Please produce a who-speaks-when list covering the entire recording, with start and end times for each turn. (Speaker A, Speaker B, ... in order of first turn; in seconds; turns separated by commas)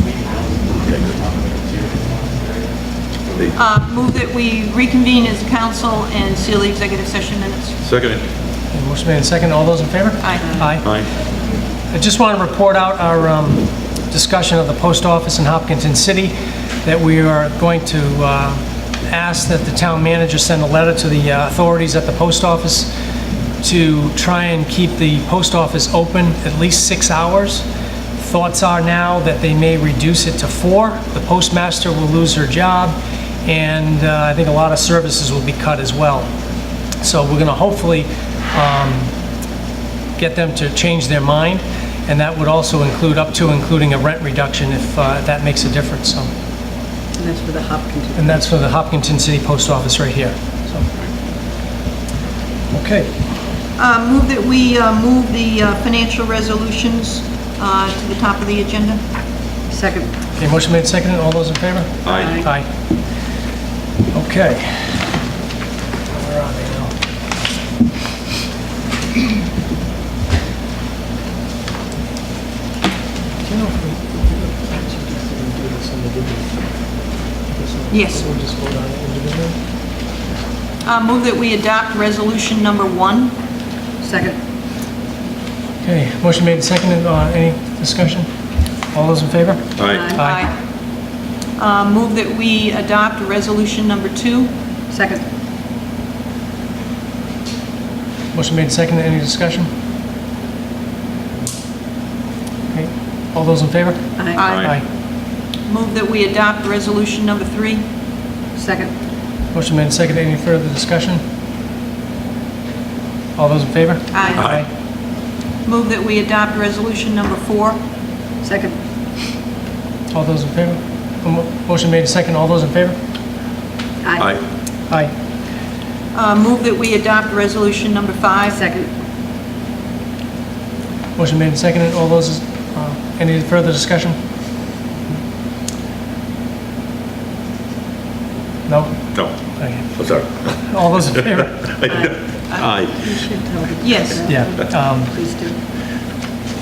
Speaker A: 0.7-1.4, Speaker A: 3.3-3.6, Speaker B: 3.5-7.8, Speaker A: 7.8-8.2, Speaker C: 8.7-10.8, Speaker B: 10.2-10.7, Speaker A: 10.8-11.1, Speaker C: 11.9-16.3, Speaker C: 16.8-22.9, Speaker C: 23.6-27.6, Speaker C: 28.2-36.3, Speaker C: 37.0-39.1, Speaker C: 40.2-46.3, Speaker D: 47.1-48.4, Speaker C: 48.1-50.9, Speaker C: 52.7-53.1, Speaker B: 53.8-59.0, Speaker D: 59.7-60.1, Speaker C: 60.4-62.6, Speaker A: 62.0-62.4, Speaker D: 62.1-62.5, Speaker C: 64.1-65.0, Speaker C: 66.1-66.9, Speaker C: 73.4-76.5, Speaker C: 77.5-79.5, Speaker B: 77.9-78.3, Speaker B: 80.8-83.3, Speaker D: 84.0-84.4, Speaker C: 85.8-88.3, Speaker C: 88.9-90.4, Speaker A: 89.8-90.2, Speaker D: 89.9-90.2, Speaker B: 90.2-90.5, Speaker B: 91.6-94.5, Speaker D: 94.9-95.2, Speaker C: 98.3-99.7, Speaker C: 102.7-104.0, Speaker D: 104.2-104.5, Speaker B: 104.3-104.8, Speaker A: 104.4-104.8, Speaker B: 105.7-107.8, Speaker D: 108.6-108.9, Speaker C: 109.5-111.2, Speaker C: 113.4-114.7, Speaker B: 114.1-114.5, Speaker B: 115.6-117.8, Speaker D: 118.4-118.8, Speaker C: 120.1-123.0, Speaker D: 124.0-124.4, Speaker B: 126.1-128.6, Speaker D: 128.5-128.9, Speaker C: 131.2-134.2, Speaker C: 138.7-139.0, Speaker C: 139.6-139.8, Speaker A: 139.9-140.5, Speaker C: 140.7-141.6, Speaker A: 141.1-143.0, Speaker D: 141.8-142.2, Speaker D: 142.9-145.6, Speaker B: 143.8-144.2, Speaker C: 144.2-145.1